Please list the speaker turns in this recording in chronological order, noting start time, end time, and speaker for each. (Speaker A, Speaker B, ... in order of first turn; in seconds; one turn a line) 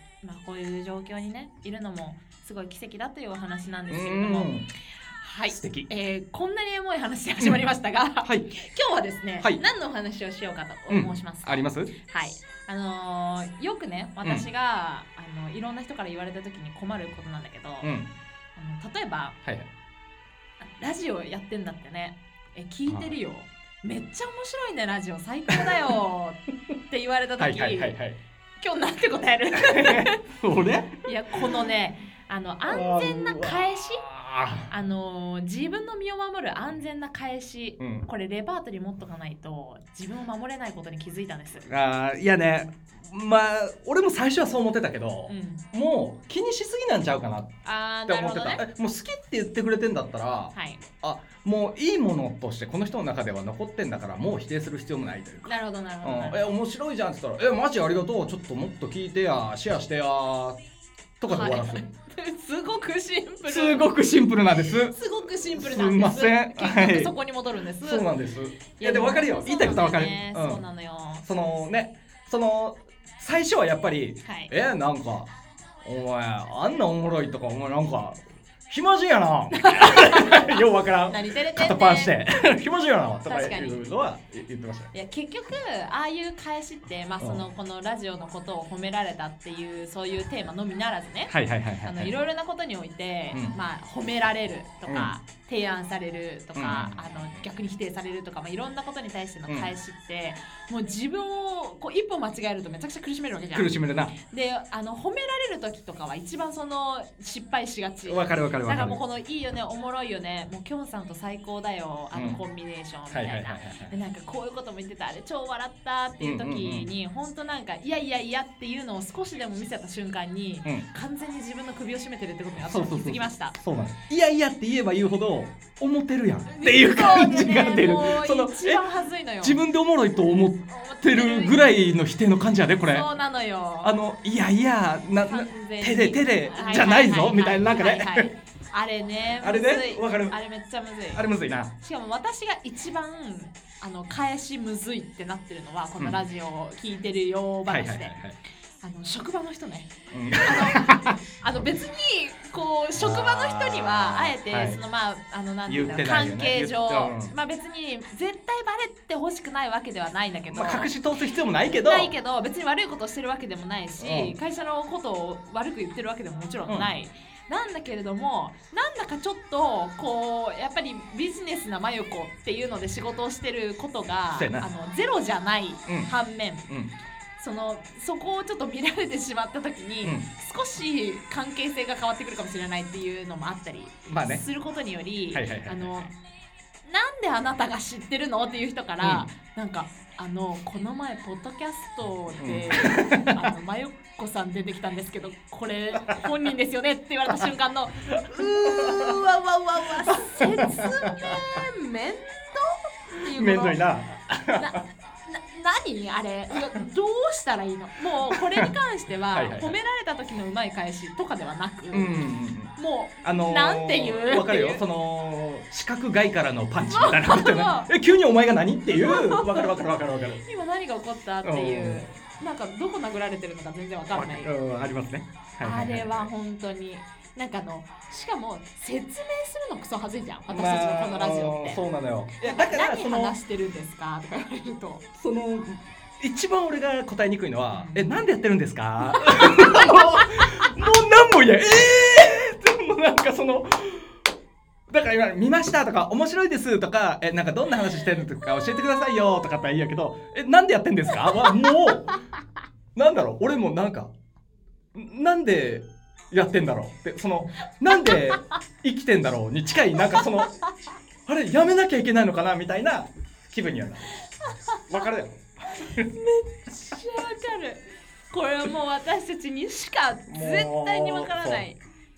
Speaker A: 0.2-4.5
Speaker B: 3.9-4.7
Speaker A: 5.2-17.9
Speaker B: 5.5-5.9
Speaker B: 10.9-11.9
Speaker B: 17.8-18.1
Speaker A: 18.6-19.4
Speaker A: 20.6-28.0
Speaker B: 22.9-23.1
Speaker B: 27.4-28.2
Speaker A: 28.6-30.2
Speaker B: 29.6-31.6
Speaker A: 31.1-34.1
Speaker B: 32.7-34.7
Speaker A: 34.7-41.7
Speaker B: 37.8-38.1
Speaker B: 41.7-47.5
Speaker A: 45.3-45.6
Speaker A: 47.6-48.6
Speaker B: 48.1-60.6
Speaker A: 50.5-50.8
Speaker A: 55.5-56.5
Speaker B: 61.2-61.8
Speaker A: 61.3-63.9
Speaker B: 63.5-64.9
Speaker A: 64.9-68.1
Speaker B: 65.5-67.1
Speaker B: 67.8-70.6
Speaker A: 68.8-71.3
Speaker B: 71.2-75.3
Speaker A: 74.2-74.5
Speaker B: 75.8-84.9
Speaker A: 79.5-82.2
Speaker A: 83.3-83.8
Speaker A: 84.9-123.6
Speaker B: 87.2-87.5
Speaker B: 91.3-92.1
Speaker B: 94.9-95.1
Speaker B: 96.5-97.5
Speaker B: 103.5-104.2
Speaker B: 108.0-109.0
Speaker B: 112.1-112.4
Speaker B: 113.1-113.9
Speaker B: 116.2-116.9
Speaker B: 122.6-128.8
Speaker A: 126.5-129.6
Speaker B: 129.4-133.1
Speaker A: 130.7-131.6
Speaker A: 132.9-134.0
Speaker B: 133.8-138.3
Speaker A: 135.2-148.2
Speaker B: 139.4-140.4
Speaker B: 141.1-141.7
Speaker B: 147.7-148.4
Speaker A: 148.8-161.0
Speaker B: 150.1-151.2
Speaker B: 153.0-154.8
Speaker B: 155.7-157.3
Speaker B: 160.5-162.1
Speaker A: 161.7-176.7
Speaker B: 164.0-164.3
Speaker B: 174.4-174.7
Speaker B: 176.7-176.9
Speaker A: 177.4-186.1
Speaker B: 184.1-184.4
Speaker B: 185.3-186.1
Speaker A: 186.8-203.8
Speaker B: 189.0-189.3
Speaker B: 192.4-193.4
Speaker B: 198.1-199.2
Speaker B: 200.1-201.4
Speaker B: 203.2-204.8
Speaker A: 204.5-214.8
Speaker B: 208.3-208.7
Speaker B: 209.3-209.8
Speaker B: 211.9-220.4
Speaker A: 216.8-217.9
Speaker A: 218.9-219.8
Speaker A: 220.4-224.5
Speaker B: 221.4-222.1
Speaker B: 224.1-226.3
Speaker A: 225.6-231.8
Speaker B: 230.5-233.4
Speaker A: 232.4-235.1
Speaker B: 235.2-244.2
Speaker A: 237.7-238.1
Speaker A: 239.1-240.4
Speaker B: 244.9-252.2
Speaker B: 252.9-254.1
Speaker B: 254.9-260.6
Speaker A: 257.9-258.6
Speaker A: 260.0-260.7
Speaker B: 261.3-264.2
Speaker A: 264.4-264.8
Speaker B: 264.9-266.1
Speaker A: 265.7-271.8
Speaker B: 270.3-271.6